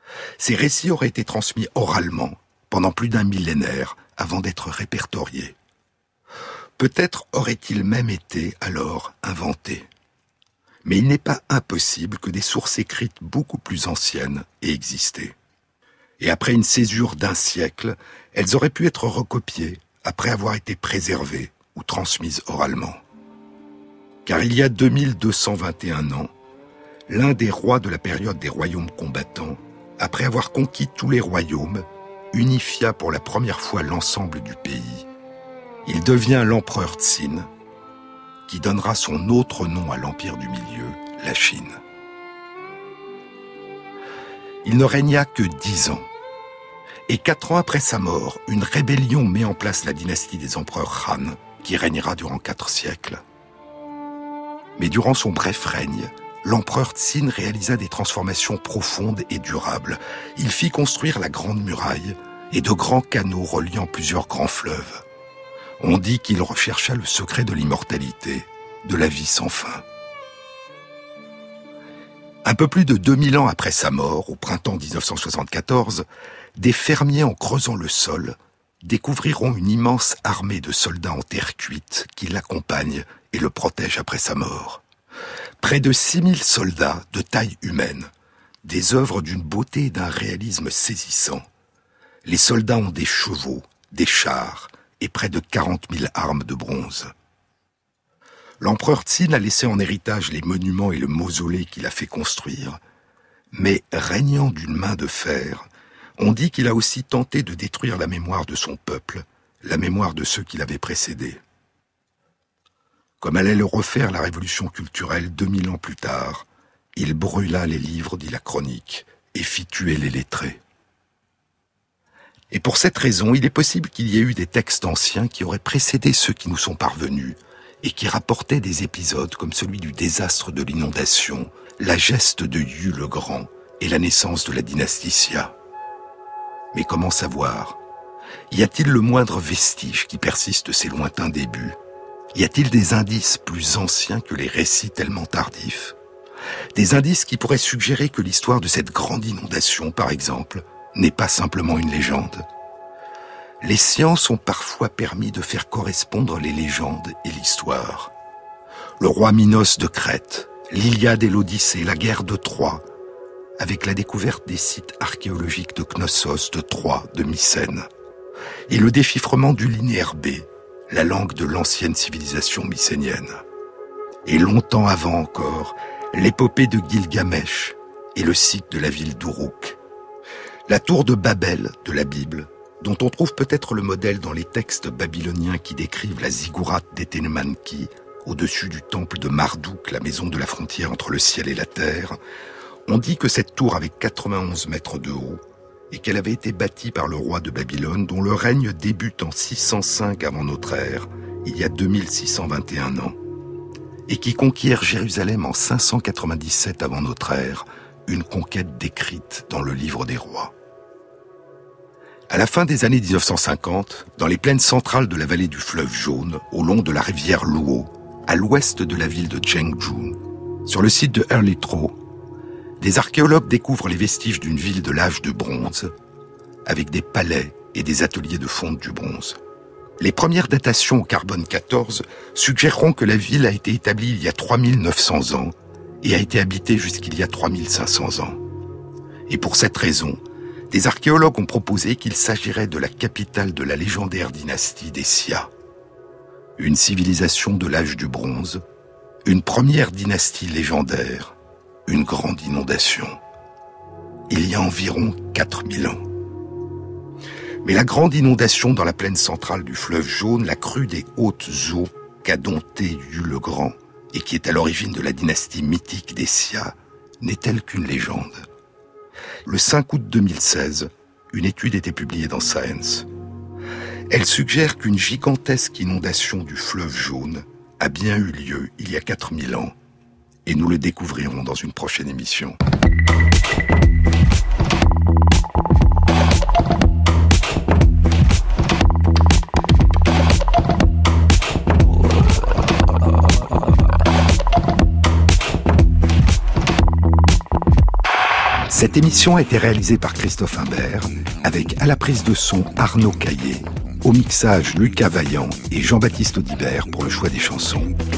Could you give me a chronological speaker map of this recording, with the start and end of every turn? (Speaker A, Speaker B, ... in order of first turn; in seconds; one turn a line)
Speaker A: 0.4-5.6
Speaker A: 6.8-9.9
Speaker A: 10.8-15.3
Speaker A: 16.2-23.0
Speaker A: 24.2-26.3
Speaker A: 27.1-35.1
Speaker A: 35.9-37.5
Speaker A: 38.5-41.8
Speaker A: 44.6-46.1
Speaker A: 47.1-53.2
Speaker A: 54.8-65.0
Speaker A: 65.8-69.8
Speaker A: 72.5-76.1
Speaker A: 76.6-84.8
Speaker A: 85.6-88.1
Speaker A: 88.7-91.5
Speaker A: 92.2-97.1
Speaker A: 98.6-102.8
Speaker A: 103.5-105.7
Speaker A: 106.2-111.4
Speaker A: 113.2-120.6
Speaker A: 122.5-135.6
Speaker A: 136.7-137.8
Speaker A: 138.5-141.8
Speaker A: 142.3-145.9
Speaker A: 146.8-152.4
Speaker A: 153.6-158.1
Speaker A: 159.0-162.9
Speaker A: 163.6-167.9
Speaker A: 168.7-173.4
Speaker A: 174.3-179.8
Speaker A: 180.7-192.2
Speaker A: 192.9-203.2
Speaker A: 204.1-210.5
Speaker A: 212.3-222.0
Speaker A: 222.8-225.9
Speaker A: 226.7-229.4
Speaker A: 230.0-238.4
Speaker A: 239.3-240.2
Speaker A: 240.7-245.5
Speaker A: 246.6-248.6
Speaker A: 249.3-251.3
Speaker A: 251.9-253.2
Speaker A: 254.3-256.0
Speaker A: 257.6-268.4
Speaker A: 269.5-273.1
Speaker A: 274.1-279.7
Speaker A: 280.5-282.6
Speaker A: 298.7-307.9